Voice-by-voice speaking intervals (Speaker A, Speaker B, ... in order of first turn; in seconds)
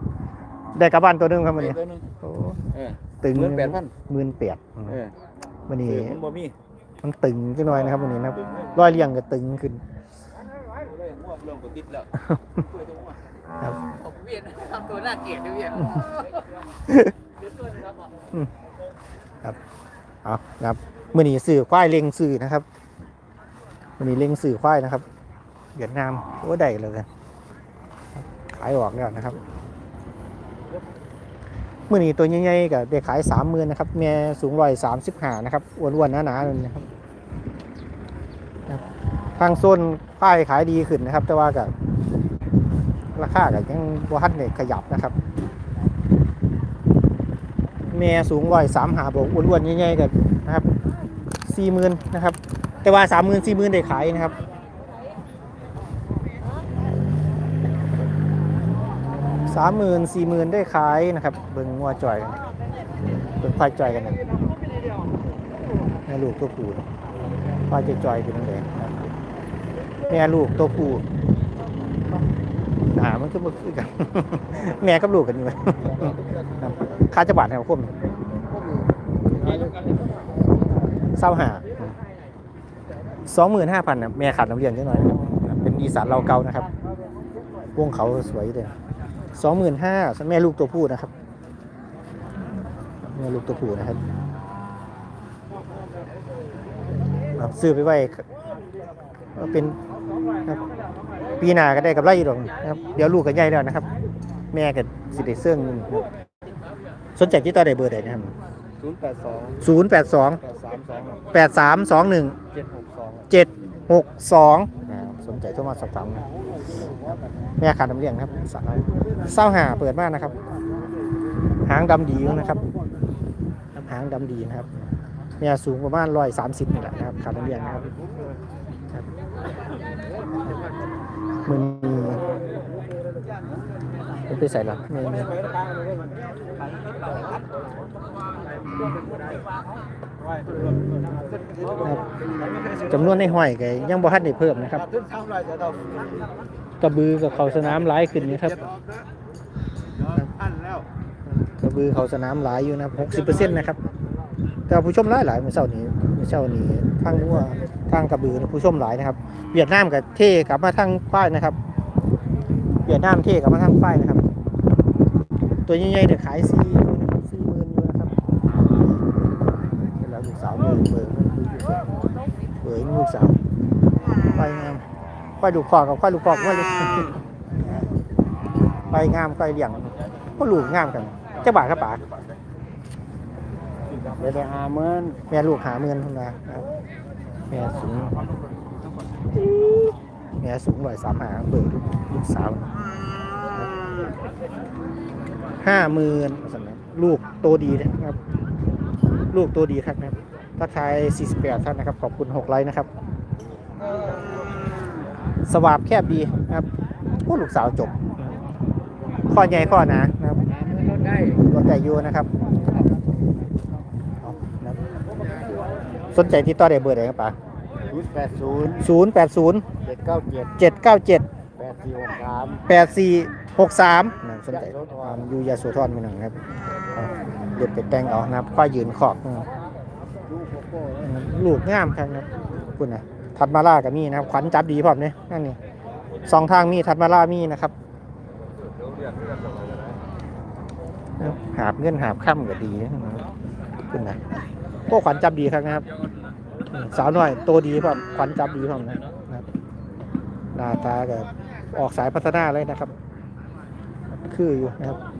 Speaker A: 0.7-2.6, 3.2-5.0, 5.7-6.2, 7.0-9.8, 12.1-12.6, 16.9-17.1, 20.2-22.6, 24.0-25.0, 25.8-27.1, 28.1-29.4, 31.9-36.9, 39.4-41.7, 43.1-45.1, 47.9-50.7, 51.5-54.3, 59.5-62.4, 63.4-64.2, 66.1-66.8, 67.7-69.0, 70.1-71.0, 72.9-77.9, 81.2-82.0, 83.2-86.7, 87.8-88.7, 89.3-91.1, 93.0-94.0, 97.4-98.2, 99.3-99.8, 101.4-103.9, 104.5-106.1, 107.2-108.3, 109.6-110.4, 111.3-112.4, 113.3-116.2, 116.8-120.4, 121.7-122.6, 123.8-124.7, 125.4-127.9, 131.4-132.2, 134.3-135.3, 142.9-144.8, 146.8-148.6, 151.4-153.8, 154.7-161.6, 162.8-164.2, 165.7-168.1, 170.0-171.8, 172.6-173.3, 174.3-174.8, 175.4-177.2, 178.9-182.0, 185.3-186.6, 187.5-188.2, 190.4-192.7, 195.6-198.2, 199.3-202.9, 205.5-206.7, 207.2-208.4, 209.3-210.4, 211.4-212.3, 214.2-214.8, 216.1-217.3, 218.8-219.7, 220.6-221.2, 222.7-226.4, 226.9-229.4, 231.0-235.6, 236.3-237.7, 241.2-243.2, 243.9-244.2, 244.9-245.8, 246.7-249.4, 250.5-252.9, 254.2-255.0
Speaker B: 1.6-2.0, 2.7-3.9, 5.8-6.5, 11.1-12.1, 108.8-109.7, 110.4-111.2, 112.5-113.2, 145.0-145.8, 184.1-185.2, 217.9-218.9, 219.8-220.6, 221.6-222.6, 224.5-225.2, 230.3-230.7
Speaker C: 13.9-16.2, 210.8-211.2